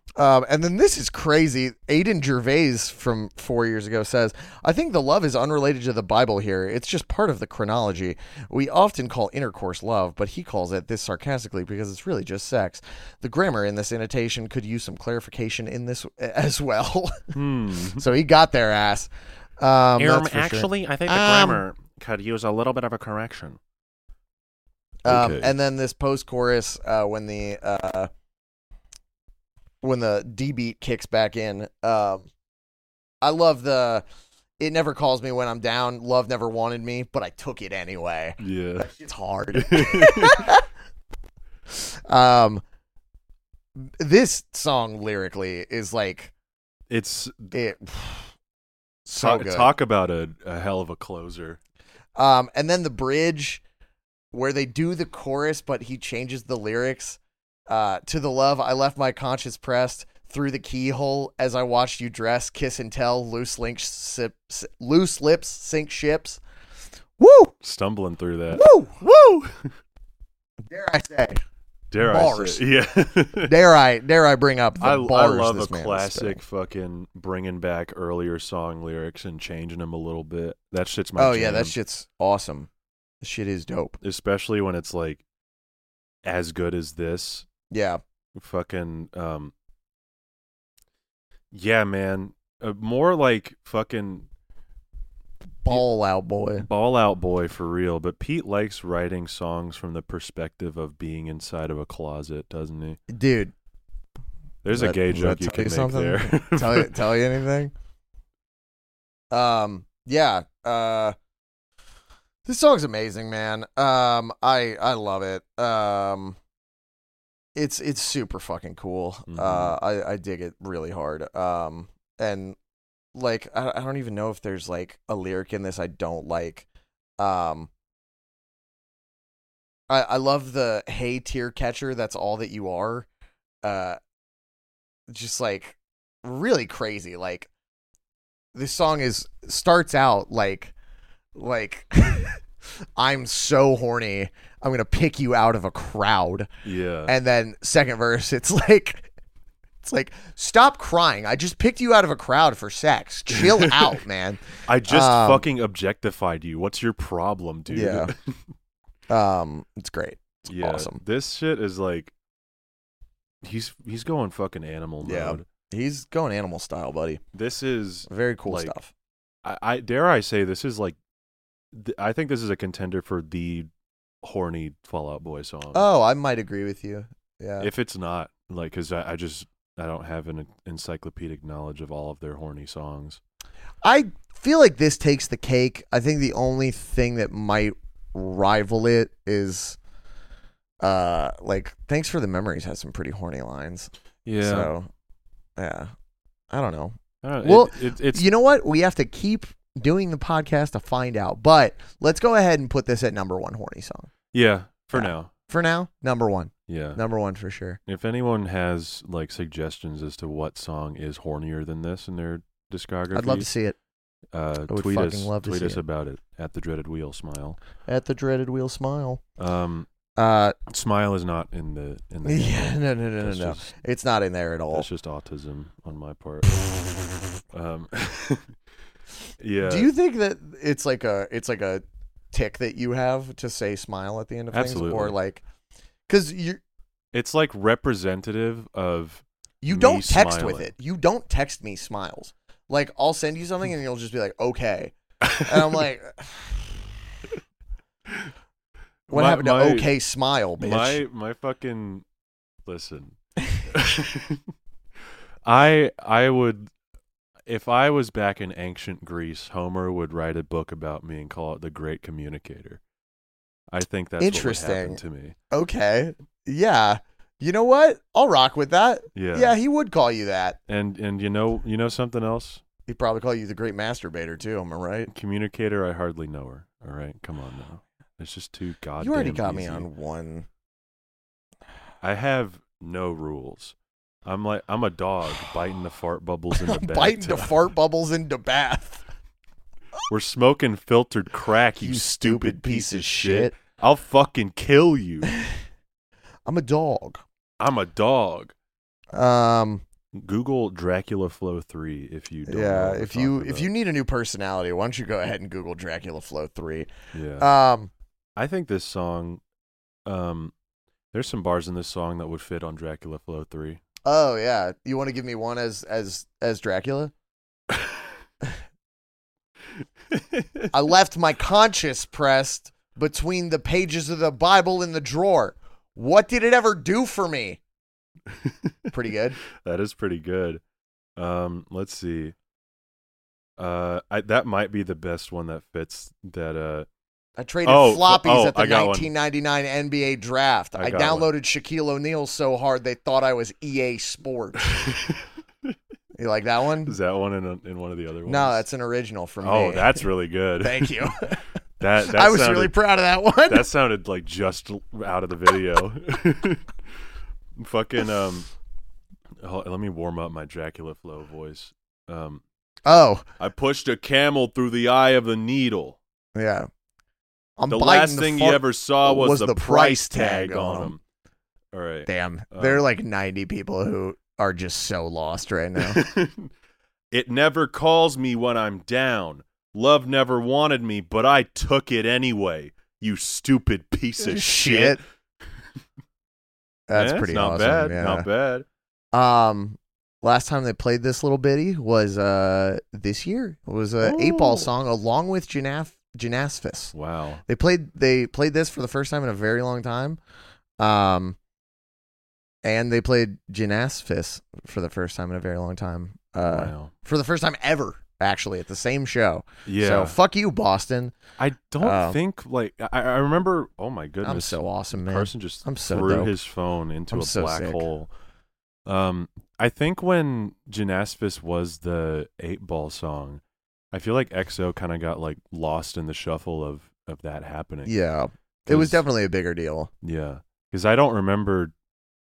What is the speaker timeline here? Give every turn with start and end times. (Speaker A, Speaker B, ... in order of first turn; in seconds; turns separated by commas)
Speaker A: 0.2-17.3, Speaker B: 17.3-18.1, Speaker A: 17.8-21.6, Speaker B: 19.9-23.6, Speaker A: 25.0-28.1, Speaker B: 25.1-25.5, Speaker A: 29.8-32.3, Speaker A: 33.2-34.0, Speaker A: 34.6-40.6, Speaker B: 38.4-38.9, Speaker B: 39.5-40.5, Speaker A: 41.7-42.6, Speaker A: 43.8-46.3, Speaker B: 46.9-47.5, Speaker A: 47.5-48.3, Speaker A: 49.0-49.7, Speaker B: 49.2-51.6, Speaker A: 52.2-53.6, Speaker A: 54.3-66.4, Speaker A: 67.2-67.5, Speaker B: 67.6-69.7, Speaker A: 68.5-69.0, Speaker A: 70.7-71.4, Speaker B: 71.9-73.5, Speaker A: 72.0-72.6, Speaker A: 73.4-76.4, Speaker B: 74.8-81.7, Speaker A: 81.2-82.7, Speaker A: 83.2-84.0, Speaker B: 84.0-85.2, Speaker B: 86.2-87.5, Speaker A: 87.7-88.0, Speaker B: 88.3-89.5, Speaker B: 91.5-94.3, Speaker A: 95.6-96.7, Speaker B: 96.6-103.0, Speaker A: 103.1-103.5, Speaker B: 104.6-107.1, Speaker A: 104.7-107.7, Speaker A: 109.3-111.1, Speaker A: 112.5-116.4, Speaker A: 117.5-122.6, Speaker B: 119.3-119.8, Speaker A: 123.1-126.7, Speaker A: 127.2-127.7, Speaker A: 129.9-133.1, Speaker A: 133.6-134.0, Speaker A: 135.1-137.5, Speaker A: 138.5-140.7, Speaker A: 141.3-142.4, Speaker A: 143.0-146.5, Speaker B: 146.6-147.1, Speaker A: 147.1-149.1, Speaker A: 149.8-155.5, Speaker B: 153.3-154.0, Speaker B: 154.7-158.4, Speaker A: 157.7-158.1, Speaker A: 159.1-161.0, Speaker B: 160.5-162.1, Speaker B: 163.4-165.4, Speaker A: 165.0-167.2, Speaker B: 167.3-168.7, Speaker A: 168.1-168.9, Speaker B: 169.4-170.9, Speaker B: 171.7-173.7, Speaker B: 174.2-175.8, Speaker A: 175.7-177.7, Speaker B: 177.6-183.2, Speaker A: 183.8-189.8, Speaker A: 190.8-194.9, Speaker B: 194.2-194.7, Speaker A: 195.6-195.9, Speaker A: 196.5-204.1, Speaker B: 197.2-198.3, Speaker B: 204.3-205.3, Speaker A: 204.9-207.8, Speaker B: 206.7-207.0, Speaker B: 207.8-213.5, Speaker A: 213.1-213.8, Speaker B: 214.3-217.6, Speaker A: 214.7-215.8, Speaker A: 217.8-219.2, Speaker B: 219.4-219.9, Speaker A: 220.2-220.6, Speaker B: 220.7-223.7, Speaker A: 222.2-224.9, Speaker B: 224.7-226.7, Speaker B: 227.5-228.6, Speaker B: 229.4-229.9, Speaker A: 229.6-235.4, Speaker B: 234.5-235.2, Speaker A: 236.1-236.6, Speaker B: 237.1-240.7, Speaker A: 239.6-246.6, Speaker B: 245.2-245.8, Speaker B: 249.1-249.9, Speaker A: 249.1-251.0, Speaker B: 250.6-252.0, Speaker B: 252.6-254.4, Speaker B: 255.4-256.7, Speaker B: 257.4-262.8, Speaker B: 263.7-265.4, Speaker A: 264.2-265.0, Speaker A: 265.5-270.6, Speaker B: 269.1-269.6, Speaker B: 270.7-272.6, Speaker A: 272.9-275.1, Speaker B: 275.1-279.9, Speaker A: 279.0-280.5, Speaker B: 282.0-287.6, Speaker A: 286.6-289.0, Speaker B: 290.1-295.3, Speaker A: 291.8-293.5, Speaker A: 295.2-295.6, Speaker A: 296.4-297.2, Speaker B: 297.6-298.5, Speaker A: 299.1-299.8, Speaker B: 300.1-303.7, Speaker A: 302.4-307.9, Speaker B: 307.1-307.5, Speaker B: 308.4-309.4, Speaker B: 310.1-310.5, Speaker B: 311.1-313.8, Speaker A: 314.0-317.1, Speaker B: 320.1-320.7, Speaker A: 320.7-327.6, Speaker B: 328.3-328.7, Speaker A: 328.9-329.4, Speaker B: 329.6-330.6, Speaker B: 331.1-332.4, Speaker B: 333.6-336.9, Speaker A: 337.4-344.8, Speaker B: 337.6-339.1, Speaker B: 340.7-341.3, Speaker B: 344.7-345.7, Speaker A: 346.2-346.9, Speaker B: 346.8-348.6, Speaker A: 348.3-350.1, Speaker B: 349.4-351.1, Speaker A: 350.6-351.4, Speaker B: 351.8-352.7, Speaker A: 352.0-353.7, Speaker B: 353.4-356.9, Speaker B: 357.5-358.5, Speaker B: 359.4-362.4, Speaker A: 362.8-363.2, Speaker B: 363.4-366.0, Speaker A: 366.3-366.7, Speaker A: 367.6-370.9, Speaker B: 367.7-371.0, Speaker B: 371.7-372.8, Speaker A: 372.1-376.0, Speaker B: 375.8-376.5, Speaker B: 377.1-385.0, Speaker A: 384.2-385.0, Speaker A: 386.9-388.2, Speaker B: 386.9-388.7, Speaker A: 389.1-396.9, Speaker B: 394.0-394.7, Speaker B: 396.9-397.4, Speaker A: 397.4-400.2, Speaker A: 400.8-401.4, Speaker A: 402.6-411.1, Speaker B: 406.5-406.9, Speaker B: 409.6-410.2, Speaker B: 411.4-418.1, Speaker A: 411.8-412.2, Speaker A: 414.2-416.3, Speaker A: 417.1-417.8, Speaker B: 418.9-427.9, Speaker A: 427.9-429.9, Speaker B: 428.7-429.0, Speaker B: 430.0-431.7